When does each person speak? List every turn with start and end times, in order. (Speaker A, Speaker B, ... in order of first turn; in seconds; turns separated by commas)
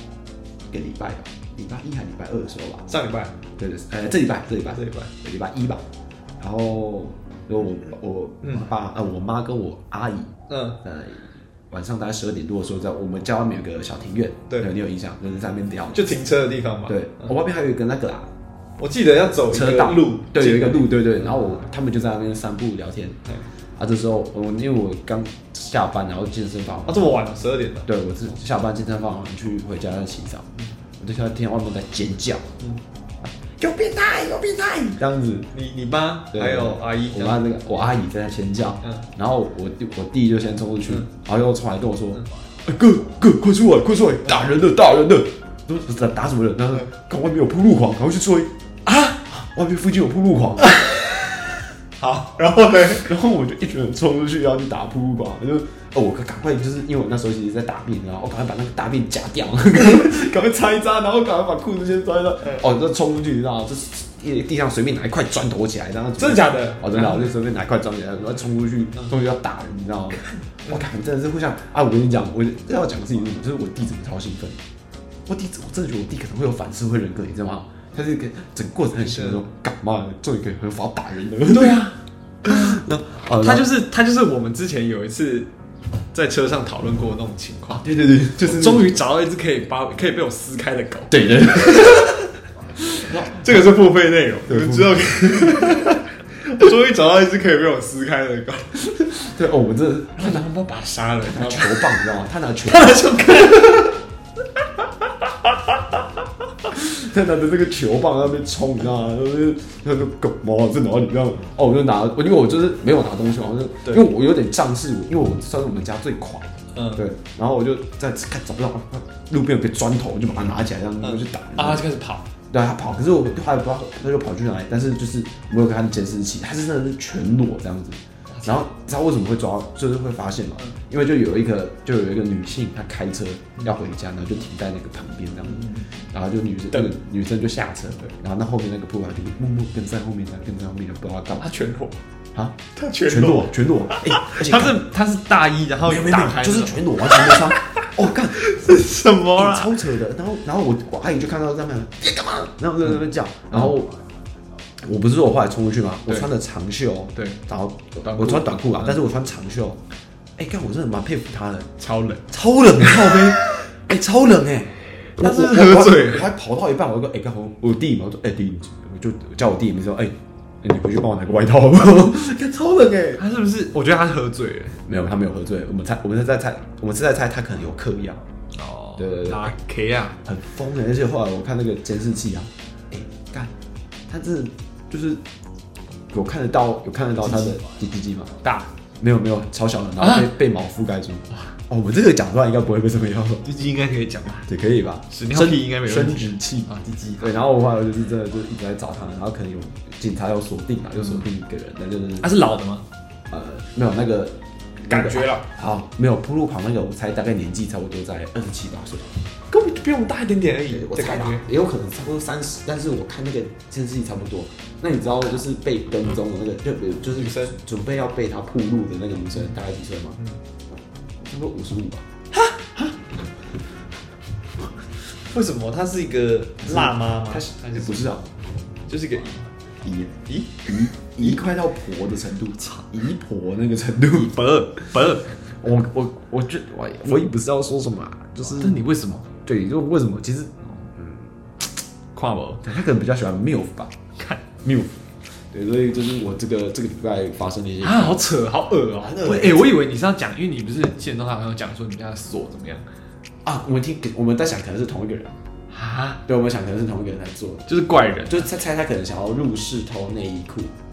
Speaker A: 0.7-2.9, Speaker B: 2.9-3.4, Speaker A: 3.6-5.8, Speaker B: 4.7-5.1, Speaker A: 6.4-16.1, Speaker B: 10.5-10.8, Speaker B: 15.9-17.3, Speaker A: 16.9-18.3, Speaker B: 18.8-21.6, Speaker A: 19.5-23.2, Speaker A: 23.8-27.1, Speaker B: 26.9-27.9, Speaker A: 27.9-30.5, Speaker A: 31.0-32.5, Speaker A: 33.5-35.5, Speaker B: 35.5-37.4, Speaker A: 36.3-50.8, Speaker B: 50.6-51.4, Speaker B: 52.0-53.1, Speaker A: 53.0-74.6, Speaker B: 66.2-67.3, Speaker A: 75.3-81.9, Speaker B: 79.1-79.4, Speaker B: 81.5-82.8, Speaker A: 82.4-83.7, Speaker B: 83.4-85.5, Speaker B: 86.1-87.8, Speaker A: 87.7-89.0, Speaker B: 88.4-92.2, Speaker A: 91.1-92.2, Speaker B: 92.8-99.3, Speaker A: 93.0-93.7, Speaker A: 94.5-95.9, Speaker A: 99.2-100.5, Speaker B: 100.2-102.1, Speaker A: 101.3-103.5, Speaker B: 102.7-104.0, Speaker A: 106.7-121.9, Speaker B: 116.8-117.0, Speaker B: 121.0-122.3, Speaker A: 122.5-141.5, Speaker B: 128.3-128.6, Speaker B: 135.5-135.9, Speaker B: 141.3-142.0, Speaker A: 142.3-144.8, Speaker B: 142.7-149.8, Speaker A: 145.8-148.8, Speaker A: 149.3-153.9, Speaker B: 153.5-153.8, Speaker A: 154.8-159.8, Speaker B: 157.2-157.4, Speaker B: 158.0-159.0, Speaker A: 160.4-161.7, Speaker B: 161.8-162.3, Speaker A: 162.3-173.2, Speaker B: 165.2-166.3, Speaker B: 173.2-174.8, Speaker A: 174.9-178.2, Speaker B: 178.6-180.2, Speaker A: 179.0-179.5, Speaker A: 180.2-183.5, Speaker A: 184.1-185.2, Speaker A: 186.1-188.3, Speaker B: 188.4-188.7, Speaker A: 189.0-193.4, Speaker B: 190.0-190.3, Speaker B: 193.4-194.5, Speaker A: 194.5-202.3, Speaker B: 195.1-197.3, Speaker B: 202.2-202.9, Speaker A: 203.3-209.1, Speaker B: 204.9-205.5, Speaker B: 209.5-211.4, Speaker A: 210.7-220.2, Speaker B: 217.1-217.6, Speaker A: 221.2-222.1, Speaker B: 222.3-222.9, Speaker B: 225.3-228.0, Speaker A: 226.6-228.3, Speaker B: 228.9-229.5, Speaker A: 229.8-234.4, Speaker B: 230.3-231.4, Speaker B: 234.1-235.3, Speaker A: 235.6-238.8, Speaker B: 238.5-239.3, Speaker A: 239.4-241.2, Speaker B: 242.1-242.6, Speaker A: 242.6-244.0, Speaker B: 244.2-244.4, Speaker A: 244.6-248.2, Speaker B: 247.8-252.9, Speaker A: 249.0-249.8, Speaker A: 253.4-255.3, Speaker B: 255.7-256.2, Speaker A: 256.3-257.7, Speaker B: 257.7-258.5, Speaker A: 258.3-260.8